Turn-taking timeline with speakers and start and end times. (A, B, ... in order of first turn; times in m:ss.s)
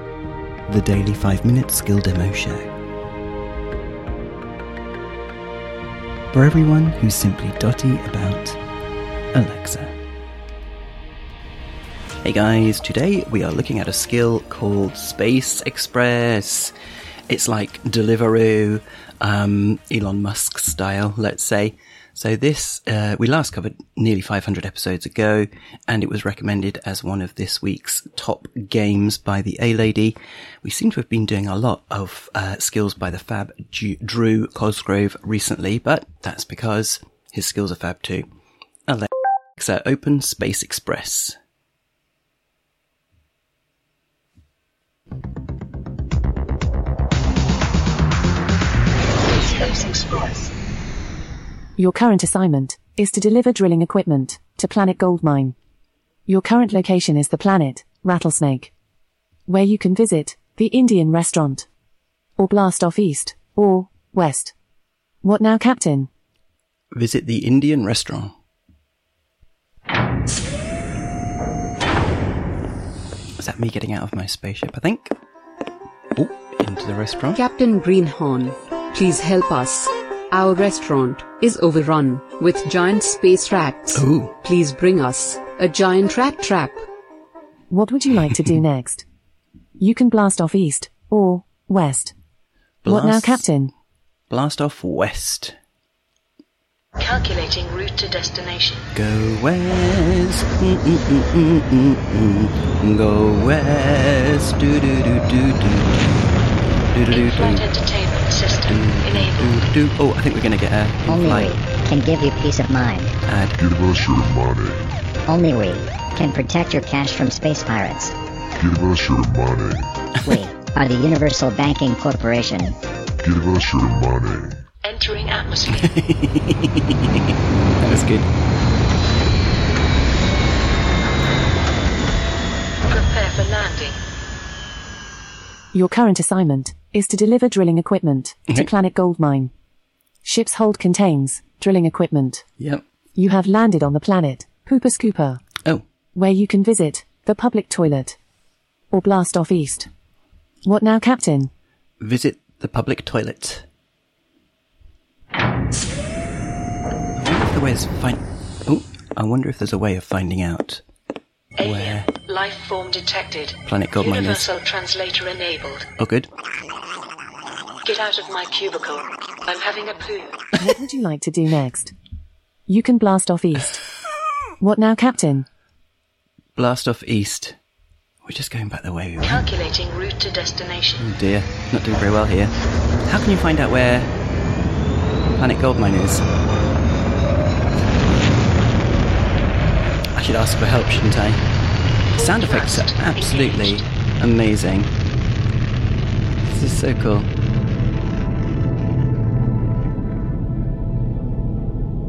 0:00.7-0:02.7 A
0:06.3-0:08.6 A
0:09.3-0:10.0 A
0:12.2-0:16.7 A
0:17.3-0:38.2 A
0:38.9-0:41.4 A
0:49.3-0:50.5 B
0:51.8-0:55.5 C
0:56.3-0:58.7 C
0:59.5-1:01.7 C
1:02.4-1:04.5 C
1:05.2-1:06.1 C
1:06.9-1:08.3 A
1:13.4-1:15.1 A
1:16.2-1:17.4 A
1:17.4-1:26.8 D
1:23.9-1:24.4 A
1:27.7-1:29.0 C
1:29.8-1:32.1 C
1:32.8-1:33.4 A
1:32.8-1:33.7 C
1:34.3-1:35.6 A
1:37.0-1:38.8 B
1:38.9-1:46.2 A
1:46.9-1:47.6 A
1:47.1-1:49.6 B
1:48.7-1:51.6 A
1:51.1-1:53.1 E
1:53.3-1:53.6 A
1:53.6-1:55.0 F
1:55.3-1:58.1 E
1:58.6-1:59.9 F
2:00.2-2:02.8 E
2:03.2-2:04.6 F
2:04.8-2:06.0 B
2:05.8-2:08.3 A
2:12.9-2:14.0 B
2:15.7-2:19.5 C
2:20.2-2:22.4 C
2:22.6-2:22.8 A
2:23.2-2:25.4 C
2:26.1-2:28.2 C
2:28.9-2:29.9 C
2:30.6-2:31.5 C
2:32.0-2:33.6 A
2:37.2-2:40.8 A
2:41.6-2:45.9 B
2:41.6-2:42.1 A
2:43.6-2:44.5 A
2:46.0-2:46.3 A
2:47.8-2:50.4 B
2:50.6-2:51.9 C
2:52.7-2:53.8 C
2:54.6-2:55.5 C
2:56.6-2:57.6 A
2:58.2-2:59.4 A
2:59.2-3:01.0 B
3:01.0-3:04.1 A
3:05.4-3:06.2 A
3:10.1-3:11.4 A
3:12.1-3:14.9 A
3:12.2-3:13.8 B
3:16.4-3:17.3 A